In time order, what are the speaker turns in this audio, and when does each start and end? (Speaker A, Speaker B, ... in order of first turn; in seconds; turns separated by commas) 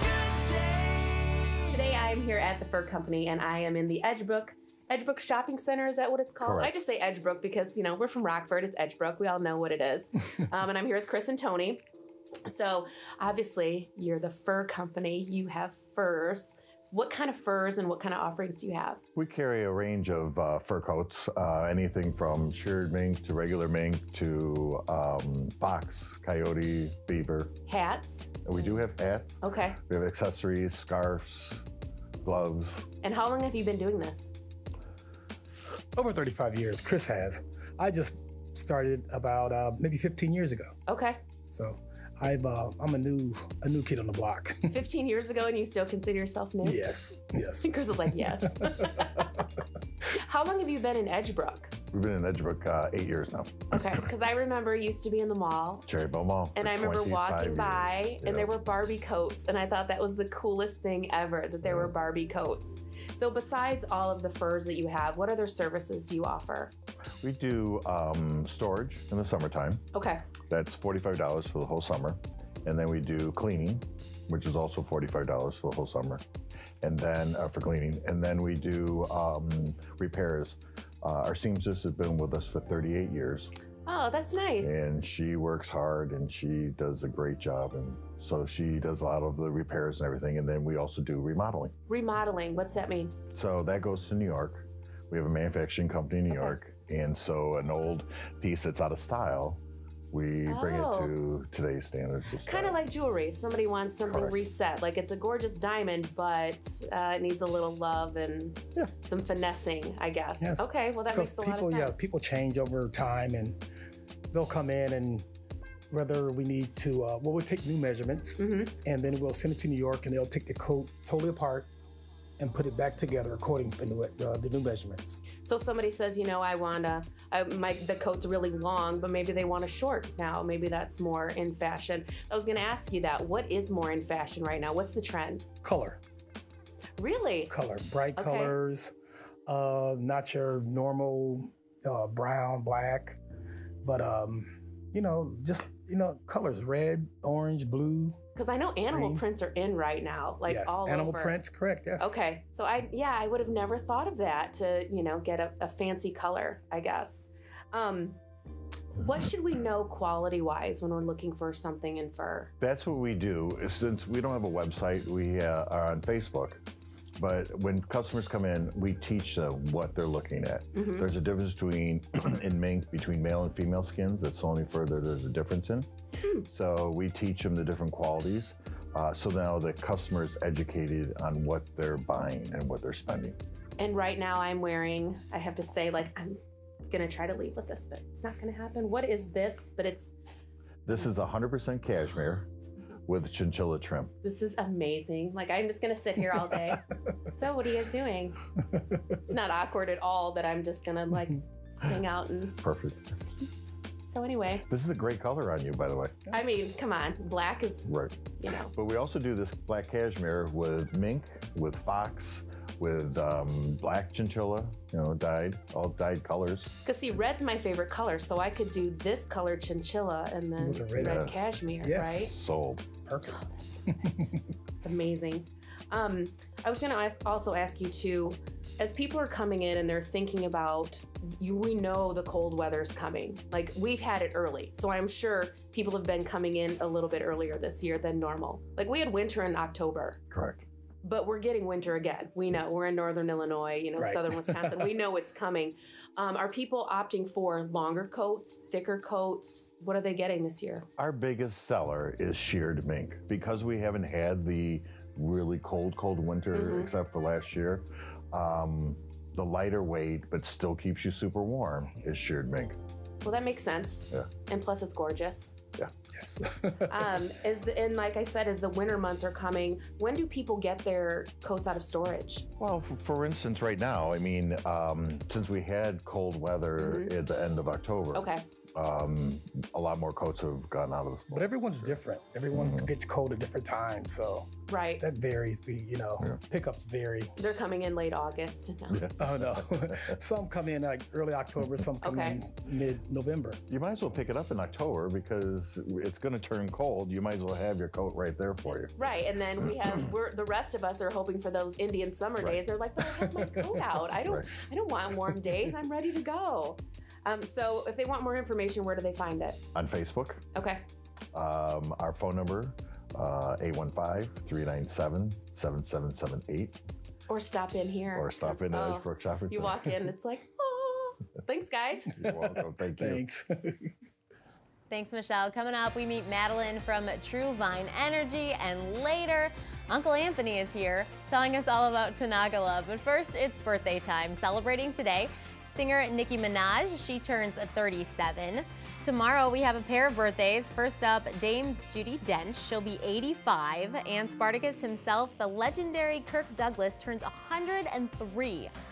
Speaker A: 1.7-11.8, Speaker B: 6.4-6.7, Speaker A: 12.5-19.0, Speaker B: 19.1-27.5, Speaker A: 27.7-28.4, Speaker B: 28.4-31.6, Speaker A: 29.4-29.8, Speaker B: 32.2-32.9, Speaker A: 33.0-34.3, Speaker C: 36.0-40.8, Speaker A: 40.9-41.2, Speaker C: 41.5-44.8, Speaker A: 44.7-46.9, Speaker C: 46.6-49.0, Speaker A: 47.6-49.4, Speaker A: 50.1-51.7, Speaker B: 51.9-53.8, Speaker A: 53.7-55.9, Speaker B: 55.9-58.5, Speaker A: 56.5-66.7, Speaker B: 61.6-61.9, Speaker B: 67.2-69.8, Speaker A: 69.9-70.2, Speaker B: 70.5-76.2, Speaker B: 76.8-83.5, Speaker A: 83.9-84.8, Speaker B: 84.6-91.7, Speaker A: 91.9-93.1, Speaker B: 93.3-99.6, Speaker A: 96.3-96.5, Speaker B: 100.1-102.8, Speaker A: 100.5-101.1, Speaker A: 102.4-112.1, Speaker B: 104.0-104.4, Speaker C: 110.4-113.6, Speaker C: 114.3-115.3, Speaker C: 115.9-121.7, Speaker A: 118.4-118.7, Speaker C: 122.4-125.2, Speaker A: 125.5-135.5, Speaker C: 135.6-136.0, Speaker A: 137.0-137.5, Speaker C: 137.5-138.9, Speaker A: 138.2-138.6, Speaker C: 139.5-143.2, Speaker C: 143.8-148.2, Speaker A: 148.3-151.4, Speaker C: 148.9-149.2, Speaker C: 150.5-152.2, Speaker A: 152.0-158.2, Speaker A: 159.0-162.5, Speaker B: 162.6-166.6, Speaker B: 167.2-175.9, Speaker A: 170.8-171.1, Speaker B: 176.4-183.4, Speaker A: 183.8-186.4, Speaker A: 186.9-190.1, Speaker B: 190.8-192.5, Speaker B: 193.1-194.1, Speaker A: 194.2-198.4, Speaker A: 199.2-202.6, Speaker B: 202.6-203.1, Speaker A: 204.1-204.7, Speaker B: 204.7-206.3, Speaker A: 206.3-208.7, Speaker B: 207.9-208.2, Speaker B: 208.7-216.7, Speaker A: 216.8-222.3, Speaker C: 220.6-221.3, Speaker B: 221.0-221.4, Speaker C: 221.8-222.3, Speaker B: 222.1-222.9, Speaker C: 223.1-224.4, Speaker A: 224.8-240.2, Speaker B: 240.3-240.7, Speaker A: 241.0-250.9, Speaker C: 244.0-244.8, Speaker B: 251.0-262.8, Speaker A: 256.5-256.9, Speaker A: 263.2-265.6, Speaker C: 266.1-267.0, Speaker A: 266.9-272.5, Speaker B: 272.6-282.0, Speaker A: 276.8-277.1, Speaker A: 278.1-278.4, Speaker C: 281.3-287.3, Speaker B: 282.6-282.9, Speaker A: 284.7-285.0, Speaker A: 287.4-289.0, Speaker B: 288.9-290.2, Speaker C: 289.2-293.6, Speaker A: 292.0-292.4, Speaker B: 293.7-299.1, Speaker A: 299.0-309.6, Speaker B: 304.2-304.5, Speaker B: 309.8-310.4, Speaker A: 310.5-310.8, Speaker B: 311.3-316.8, Speaker A: 317.3-322.1, Speaker B: 318.1-319.8, Speaker B: 322.1-323.2, Speaker C: 322.2-323.9, Speaker D: 324.9-348.7